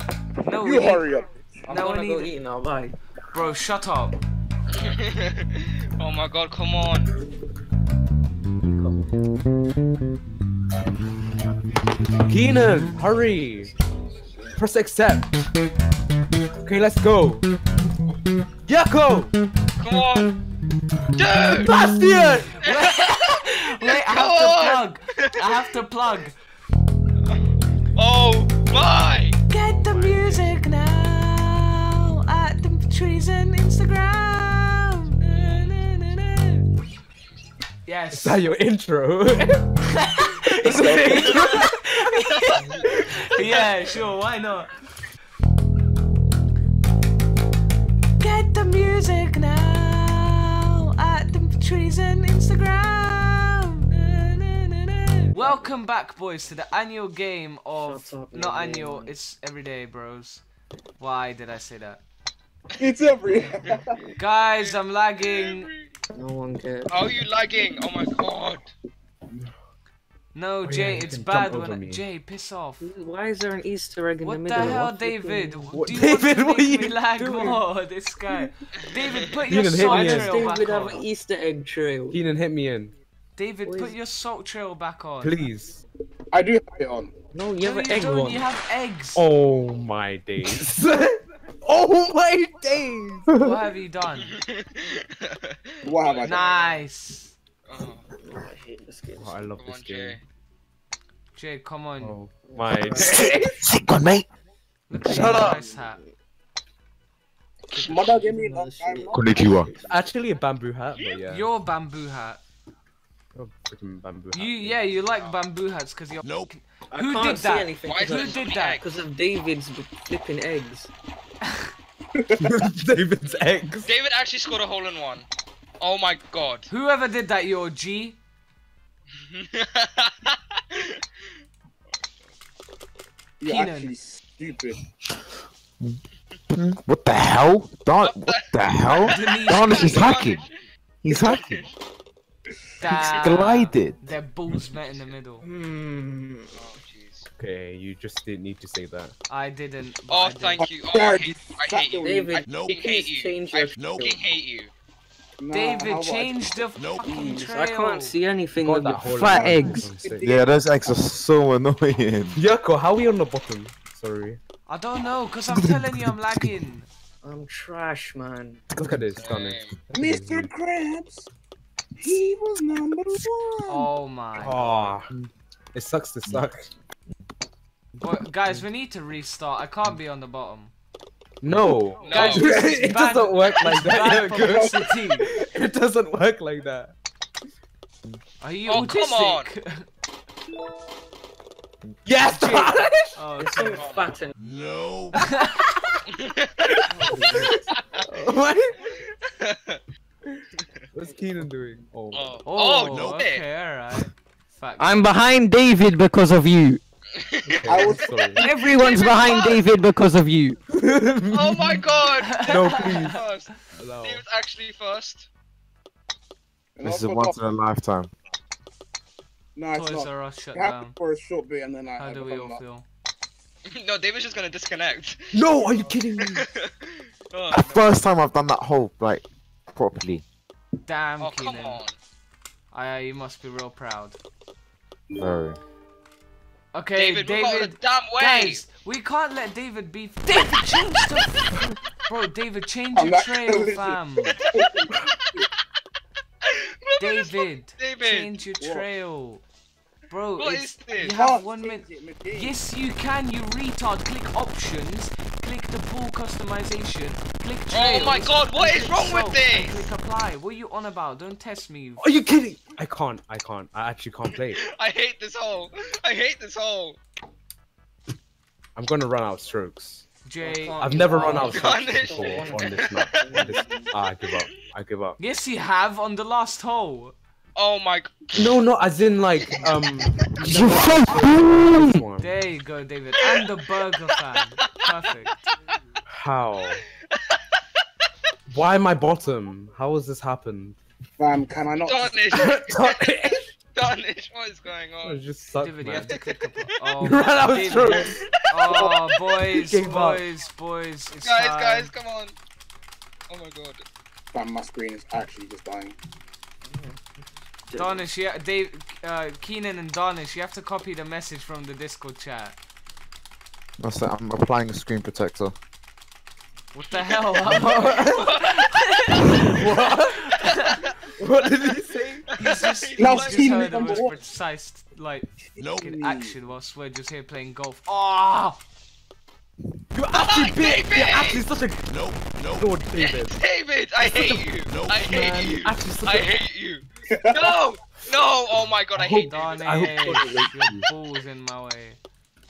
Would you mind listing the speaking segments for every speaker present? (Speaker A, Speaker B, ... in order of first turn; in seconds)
Speaker A: 0.4-1.1, 1.7-2.3, 3.3-4.2, 22.7-26.4, 29.5-36.6, 37.9-38.5, 39.9-44.7, 48.2-60.4, 61.0-62.0, 64.2-65.7, 70.3-72.9, 74.2-81.0, 83.3-85.3, 87.6-89.2, 93.3-94.3, 96.2-97.3, 101.3-102.2, 104.9-106.0, 107.7-108.3, 111.3-112.4, 114.3-118.8, 126.7-128.2, 133.4-133.9, 139.1-140.1, 142.8-145.4, 149.3-150.7, 155.5-158.2, 164.7-166.9, 173.7-174.9, 178.0-180.7, 182.1-185.3, 188.4-189.9, 192.3-193.8, 195.2-195.7, 196.9-197.3, 202.4-205.1, 212.3-213.2, 219.7-221.0, 222.0-222.8, 230.8-231.8, 232.7-234.2, 236.7-244.4, 247.0-249.4, 250.1-262.1, 270.2-271.3, 275.2-277.1, 282.2-285.4, 295.6-301.9, 307.8-312.6, 316.7-320.8, 322.4-328.6, 339.2-342.0
Speaker B: 0.6-1.7, 40.6-41.5, 62.8-64.0, 86.3-87.1, 95.8-96.4, 107.7-109.5, 133.4-134.8, 150.6-152.7, 155.4-156.4, 157.0-157.3, 159.2-160.5, 169.9-171.3, 172.0-173.9, 207.7-208.5, 216.8-217.3, 219.5-222.6, 242.9-245.5, 248.6-248.9, 251.0-252.6, 291.2-292.2, 304.3-305.9, 323.0-324.2, 325.6-326.3, 337.1-337.5
Speaker C: 1.7-3.0, 8.7-9.2, 12.4-13.7, 14.4-15.0, 21.9-22.6, 55.3-55.7, 57.7-59.1, 66.2-67.0, 70.8-71.2, 72.8-75.8, 79.5-82.3, 83.6-84.0, 87.3-88.5, 90.4-90.7, 91.8-93.3, 98.2-99.7, 102.4-103.4, 105.1-106.0, 108.3-109.9, 116.9-120.9, 145.4-146.7, 152.0-154.2, 157.3-160.2, 167.2-168.6, 193.4-194.3, 197.1-197.5, 198.1-198.7, 204.8-206.8, 208.3-210.6, 270.4-274.0, 279.5-279.9, 280.5-280.7, 306.6-307.0, 307.7-308.0
Speaker D: 4.7-7.1, 19.8-20.3, 21.1-21.8, 22.6-23.3, 23.8-25.6, 27.2-29.4, 64.5-65.9, 66.9-68.7, 78.8-79.2, 94.3-96.8, 97.6-98.0, 99.5-100.2, 117.8-118.8, 123.8-125.3, 125.8-126.7, 129.3-131.0, 138.0-140.5, 141.1-141.7, 144.8-145.1, 146.5-147.3, 150.1-154.7, 169.1-169.8, 182.0-182.6, 188.7-189.5, 193.7-195.2, 196.1-196.8, 198.9-199.8, 202.1-203.4, 207.2-207.8, 208.6-209.8, 211.3-215.3, 223.7-227.9, 231.2-232.0, 236.9-238.7, 246.5-248.3, 250.4-251.1, 257.7-259.9, 264.3-267.0, 271.2-273.6, 277.6-278.6, 287.1-287.4, 291.8-295.2, 297.6-299.0, 301.1-302.4, 303.3-303.8, 317.8-318.6, 322.4-324.1, 330.1-331.5, 332.9-340.2
Speaker E: 12.3-13.7, 14.6-15.2, 16.6-17.4, 18.6-19.3, 21.6-22.5, 38.2-39.6, 40.6-41.3, 70.7-72.0, 74.6-74.8, 75.8-77.5, 79.5-80.5, 82.1-82.9, 85.2-85.8, 89.2-90.9, 91.7-93.0, 99.2-100.1, 102.0-103.3, 105.1-105.6, 109.9-111.5, 113.3-114.8, 122.4-123.9, 147.4-149.1, 158.6-160.2, 162.3-164.4, 168.7-170.5, 174.4-175.1, 175.7-176.6, 181.4-186.9, 192.1-193.1, 198.2-198.5, 200.9-202.4, 207.5-208.5, 210.8-211.6, 212.4-213.1, 213.8-214.2, 225.3-226.4, 262.0-264.6, 268.8-270.0, 270.8-275.1, 278.4-280.0, 280.6-282.2, 286.2-286.7, 288.5-290.8, 292.4-293.4, 295.0-296.1, 297.0-298.1, 299.7-300.2, 317.5-318.0, 319.7-320.0, 321.2-322.2, 330.0-333.3, 334.1-334.4, 335.0-336.3, 339.0-340.8
Speaker F: 103.0-104.2, 109.1-109.7, 136.5-140.4, 141.0-141.6, 142.9-144.0, 160.2-162.4, 165.5-166.4, 216.8-218.1, 227.5-230.2, 235.1-235.6, 280.4-282.0, 313.8-315.6